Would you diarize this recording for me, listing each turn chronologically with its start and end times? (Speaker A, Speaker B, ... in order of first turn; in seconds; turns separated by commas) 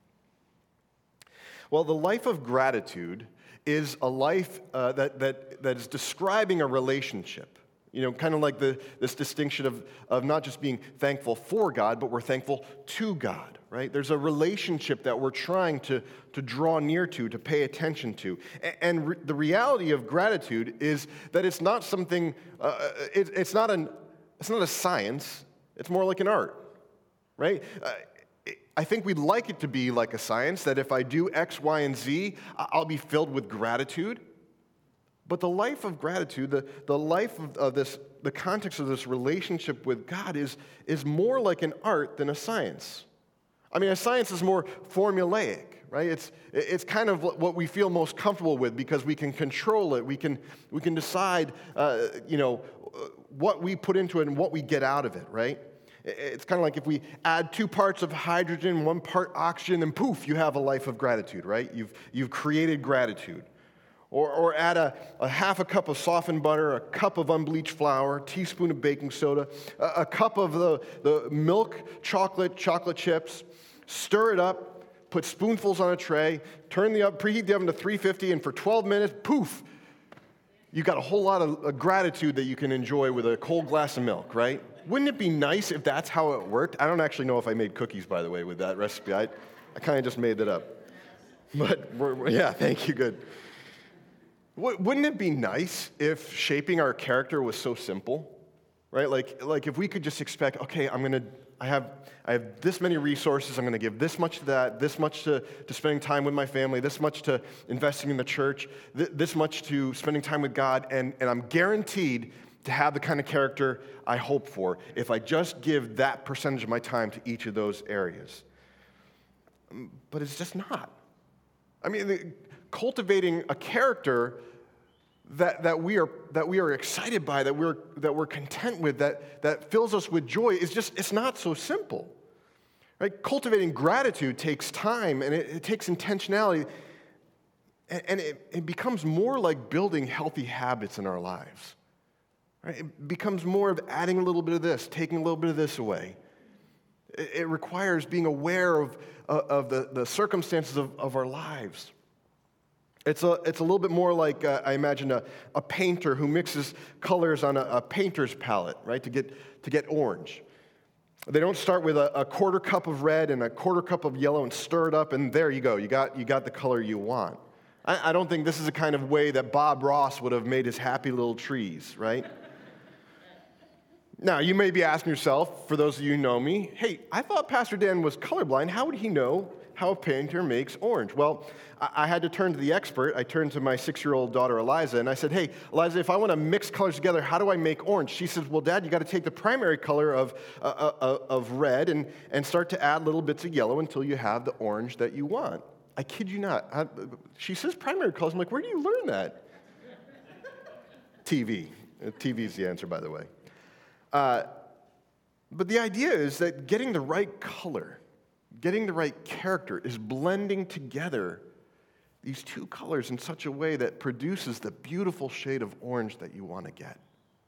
Speaker A: 1.7-26.7, Speaker A: 27.4-34.2, Speaker A: 35.2-43.1, Speaker A: 43.7-63.5, Speaker A: 64.1-79.7, Speaker A: 80.7-90.8, Speaker A: 91.5-93.2, Speaker A: 94.5-98.4, Speaker A: 98.9-118.4, Speaker A: 119.7-120.9, Speaker A: 121.8-124.4, Speaker A: 125.2-132.1, Speaker A: 133.0-136.7, Speaker A: 137.9-141.8, Speaker A: 142.6-146.2, Speaker A: 147.1-151.9, Speaker A: 153.1-160.4, Speaker A: 161.3-172.3, Speaker A: 174.2-199.4, Speaker A: 201.2-203.3, Speaker A: 204.1-204.5, Speaker A: 205.5-208.0, Speaker A: 208.6-211.4, Speaker A: 212.2-217.0